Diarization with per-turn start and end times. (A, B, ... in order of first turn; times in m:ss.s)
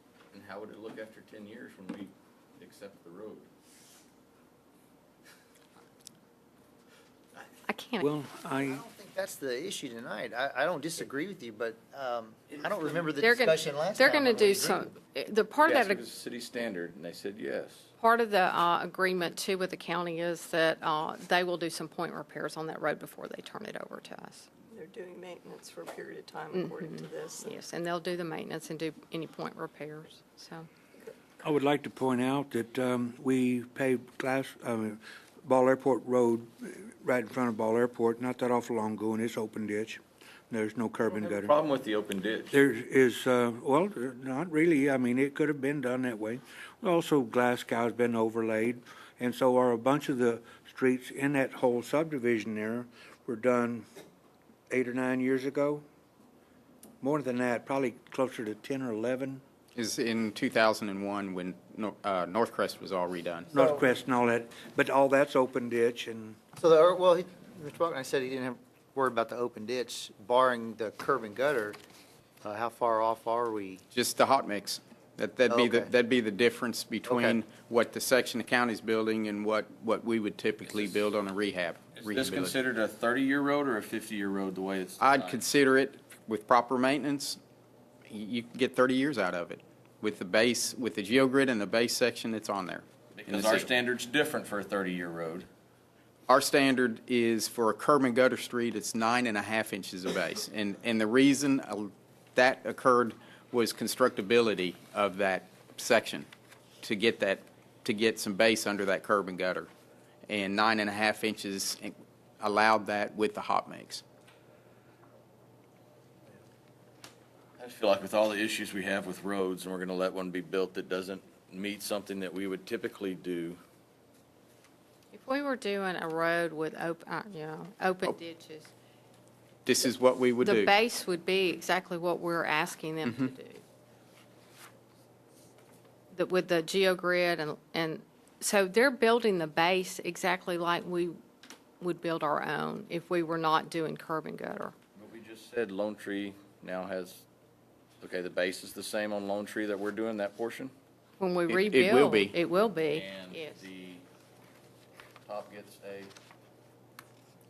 0:00.3-0:03.5 A
0:07.7-0:08.0 B
0:08.0-0:08.8 C
0:08.6-0:14.9 D
0:13.2-0:16.0 B
0:15.6-0:17.9 A
0:18.0-0:24.5 B
0:24.7-0:27.5 E
0:26.5-0:30.7 B
0:31.4-0:41.5 C
0:41.1-0:42.6 A
0:42.5-0:53.9 C
0:54.7-0:55.8 C
0:57.0-0:59.4 C
0:59.8-1:03.5 F
1:03.5-1:06.4 C
1:03.5-1:03.9 D
1:06.6-1:11.8 D
1:12.4-1:13.8 D
1:13.9-1:22.6 F
1:15.5-1:15.9 D
1:17.1-1:17.4 D
1:20.7-1:21.0 A
1:22.0-1:25.4 A
1:25.0-1:27.4 F
1:28.1-1:33.7 F
1:33.1-1:35.5 A
1:36.3-1:46.3 F
1:46.8-1:49.7 F
1:50.3-1:54.0 F
1:57.6-2:03.6 A
2:05.1-2:08.7 B
2:09.7-2:10.8 F
2:10.4-2:13.6 B
2:13.0-2:13.3 F
2:16.1-2:21.2 B
2:21.8-2:24.7 B
2:25.0-2:27.2 A
2:28.0-2:30.7 A
2:31.2-2:33.6 B
2:31.5-2:32.4 F
2:32.9-2:34.0 A
2:35.3-2:36.1 A